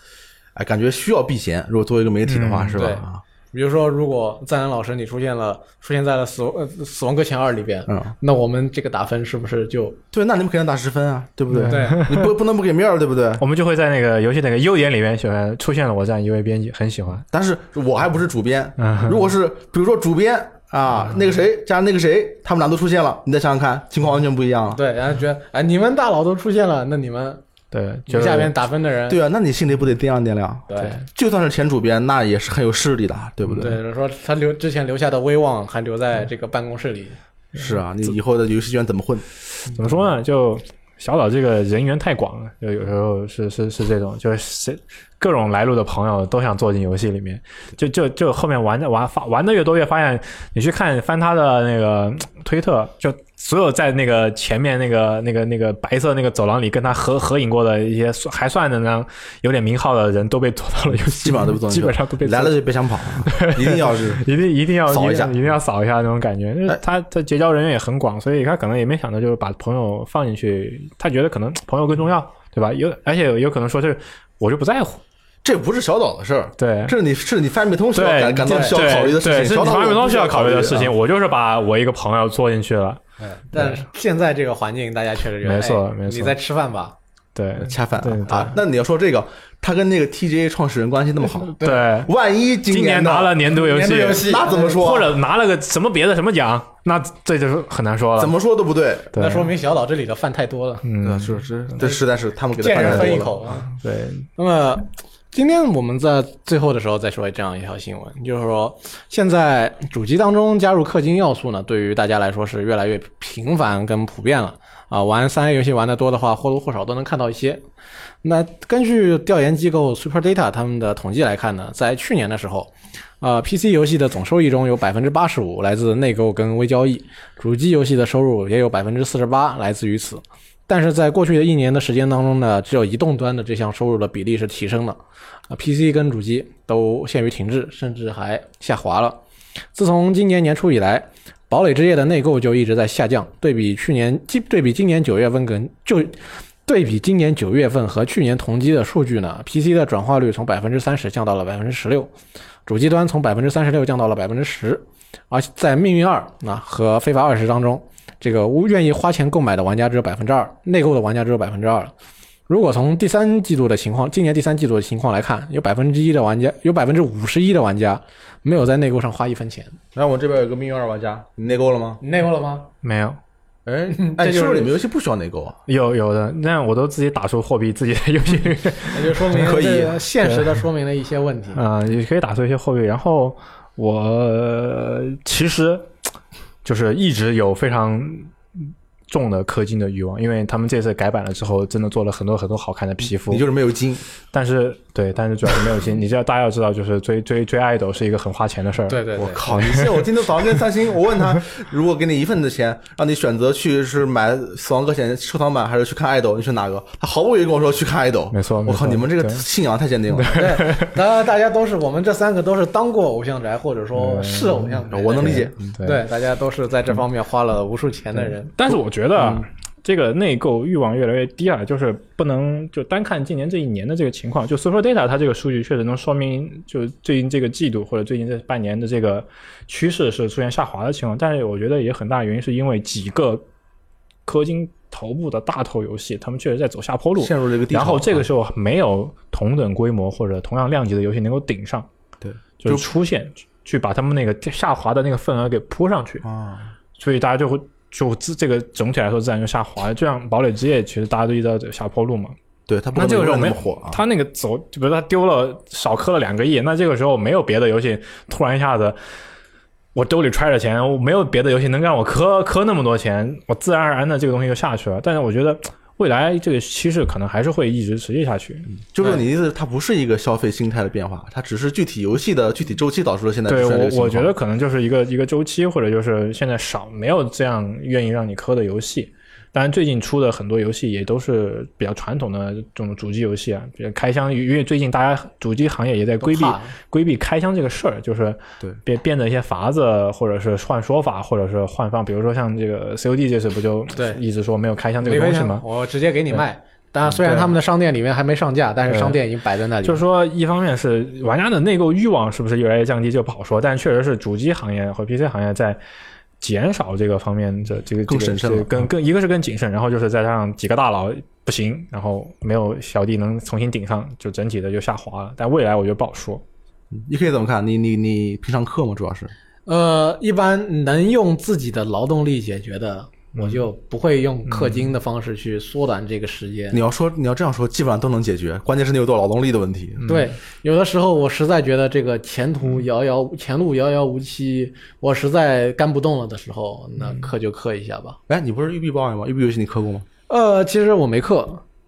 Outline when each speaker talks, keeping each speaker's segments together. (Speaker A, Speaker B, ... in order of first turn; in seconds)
Speaker A: 0.6-3.2, 10.1-13.4, 17.3-24.8, 29.1-33.8, 37.5-39.2, 61.2-64.2, 64.9-65.4, 75.4-80.9, 87.6-95.1, 98.2-99.2, 101.0-103.4, 169.9-172.0, 173.7-175.6, 179.3-180.0, 193.3-194.0, 199.2-210.5, 214.9-215.6, 237.2-238.3, 242.2-242.9, 246.2-246.7, 252.7-254.0, 268.7-274.3, 308.1-308.9, 316.9-319.3, 326.7-330.1, 338.3-340.1
Speaker B: 2.3-2.8, 11.5-12.3, 13.4-17.2, 18.8-19.3, 27.7-28.5, 39.7-62.6, 63.2-75.0, 76.6-76.9, 77.9-83.0, 83.5-83.8, 85.4-86.4, 87.3-88.6, 91.6-92.1, 92.7-98.3, 99.1-99.5, 100.8-101.4, 102.8-104.3, 172.8-173.2, 175.7-179.4, 181.5-185.9, 186.6-193.4, 194.3-199.9, 208.3-209.4, 210.1-210.9, 213.9-216.0, 218.2-233.4, 234.3-241.9, 242.6-246.3, 247.0-252.3, 252.9-259.0, 259.9-268.7, 273.5-295.6, 297.1-297.5, 298.9-299.2, 299.8-305.8, 306.4-316.4, 324.5-324.9, 330.0-330.3
Speaker C: 2.7-10.0, 11.6-12.1, 24.7-27.4, 28.1-29.2, 30.7-31.0, 33.5-37.2, 78.5-78.8, 83.4-87.0, 91.6-91.9, 93.5-94.9, 99.1-100.8, 101.8-102.0, 102.6-103.7, 104.4-117.6, 118.2-135.0, 135.5-139.2, 139.7-152.1, 152.7-161.9, 162.5-169.8, 172.0-172.7, 173.9-174.7, 178.9-181.6, 198.9-199.5, 210.3-218.6, 286.2-286.7, 293.9-294.2, 295.0-300.0, 319.6-326.8, 330.1-338.2, 340.3-341.6